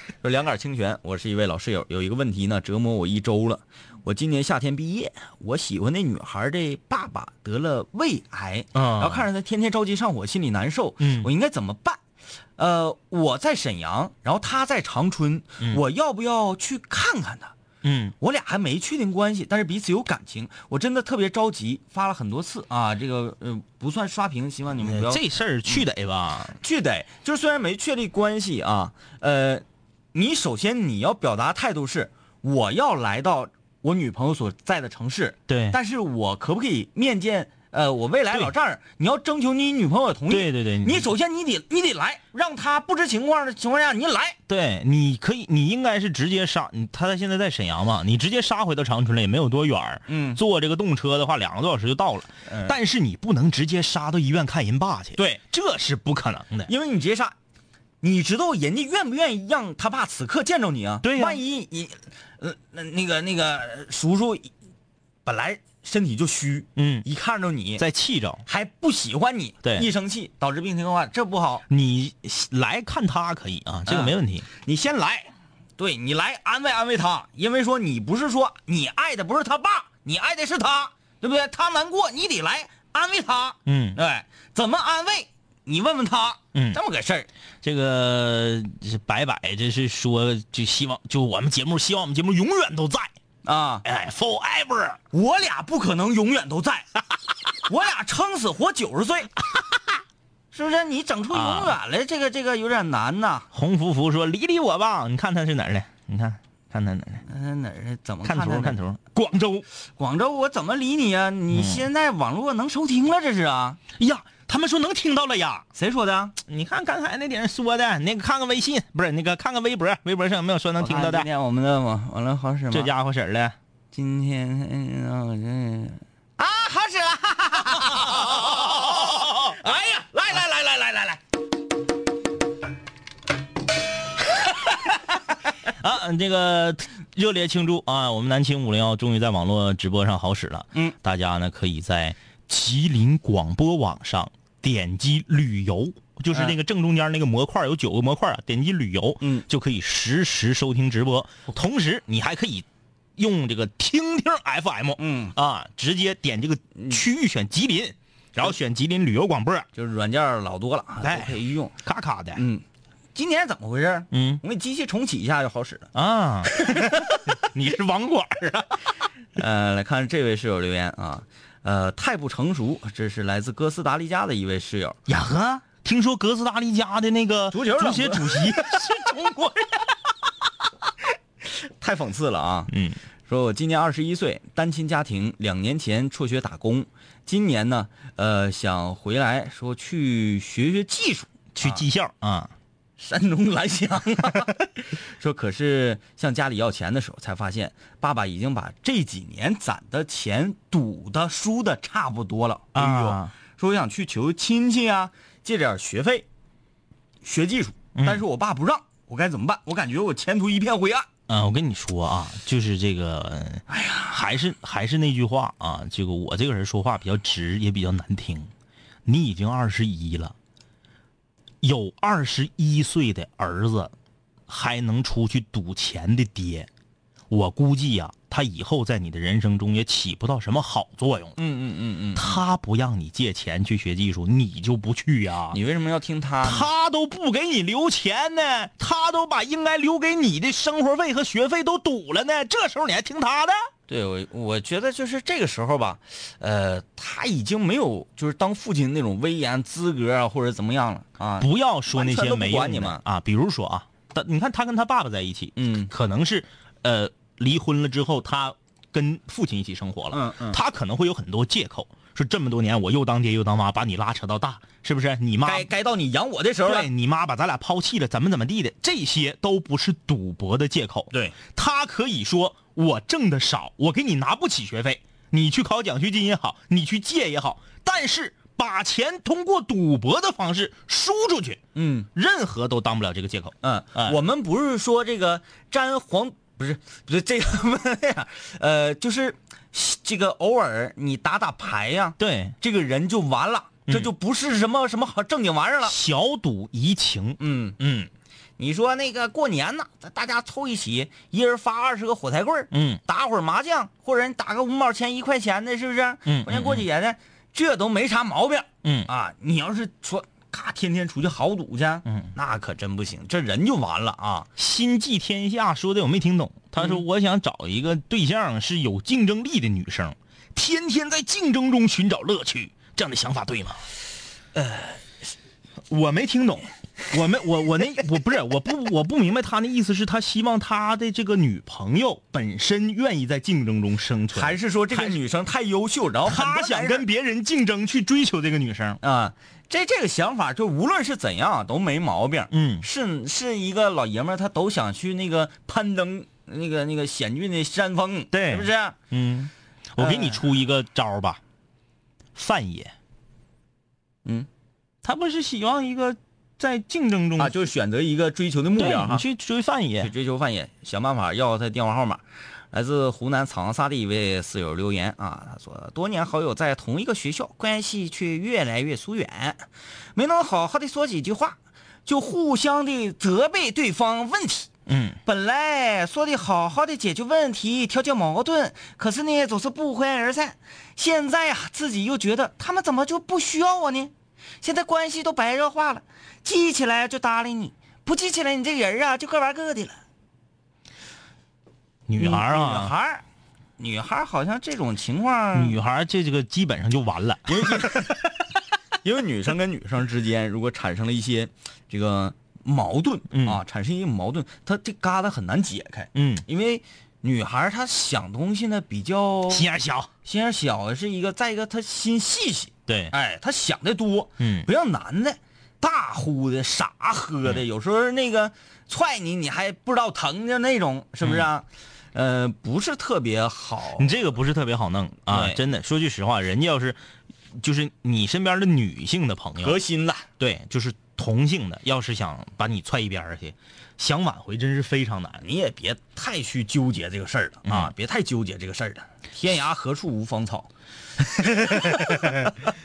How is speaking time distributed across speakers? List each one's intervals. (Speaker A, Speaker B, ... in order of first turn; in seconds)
Speaker A: 0.2-12.0, 12.6-17.5, 18.2-25.8, 26.6-44.4, 50.1-50.4, 52.5-52.7, 56.7-57.3, 58.0-64.5, 65.2-67.8, 68.5-71.6, 73.9-87.3, 93.4-93.8, 95.1-96.9, 97.7-99.3, 100.5-103.5, 107.3-108.8, 110.0-113.8, 115.8-116.4, 120.8-122.9, 123.9-131.2, 149.2-149.4, 155.0-155.4, 156.8-157.0, 159.7-161.8, 162.4-162.6, 163.1-165.9, 169.4-175.0, 177.5-178.6, 181.8-182.7, 183.3-191.8, 193.0-206.2, 207.2-211.1, 213.7-214.2, 231.4-232.4, 235.5-236.7, 243.9-253.0, 255.6-255.9, 260.1-260.6, 265.4-266.9, 281.7-282.1, 283.6-295.9, 297.4-297.8, 298.6-314.5, 324.6-324.9, 334.4-337.1, 339.0-348.9, 350.0-350.4, 357.4-359.2, 360.0-374.7, 375.2-389.9, 392.2-393.2, 393.8-395.8, 397.5-398.2, 399.0-409.6, 410.2-424.2, 425.3-425.6, 429.6-430.3, 435.4-440.7, 441.4-442.3
Speaker B: 8.7-9.2, 11.0-11.3, 17.8-18.1, 24.8-26.6, 35.5-35.8, 40.3-41.1, 44.5-56.7, 61.0-61.4, 66.8-67.0, 67.8-68.4, 71.7-74.5, 83.7-84.0, 87.6-93.1, 93.8-95.0, 101.3-101.7, 103.5-107.2, 108.2-109.6, 111.5-111.8, 114.0-115.7, 116.5-121.3, 122.7-123.5, 129.0-129.5, 135.8-152.7, 153.2-159.7, 161.0-162.4, 164.1-164.4, 165.9-168.8, 175.1-179.8, 182.7-183.0, 191.5-192.5, 202.7-203.3, 207.9-208.2, 211.3-218.5, 219.1-220.3, 221.6-223.9, 224.5-226.7, 227.3-231.4, 232.1-235.6, 236.4-243.6, 251.4-265.7, 266.6-281.6, 282.1-284.2, 292.2-292.5, 295.9-298.1, 302.7-303.0, 306.3-306.9, 308.8-309.1, 312.1-312.3, 314.6-323.8, 325.9-335.2, 336.2-339.0, 342.5-342.9, 348.3-351.4, 352.4-352.9, 355.0-357.5, 358.8-360.1, 374.9-375.2, 392.1-392.9, 395.5-397.9, 403.3-403.6, 406.1-406.4, 409.5-410.1, 412.9-413.1, 414.4-414.7, 421.2-421.5, 424.0-427.0, 427.6-429.8, 430.4-435.4, 437.6-437.9, 441.5-442.5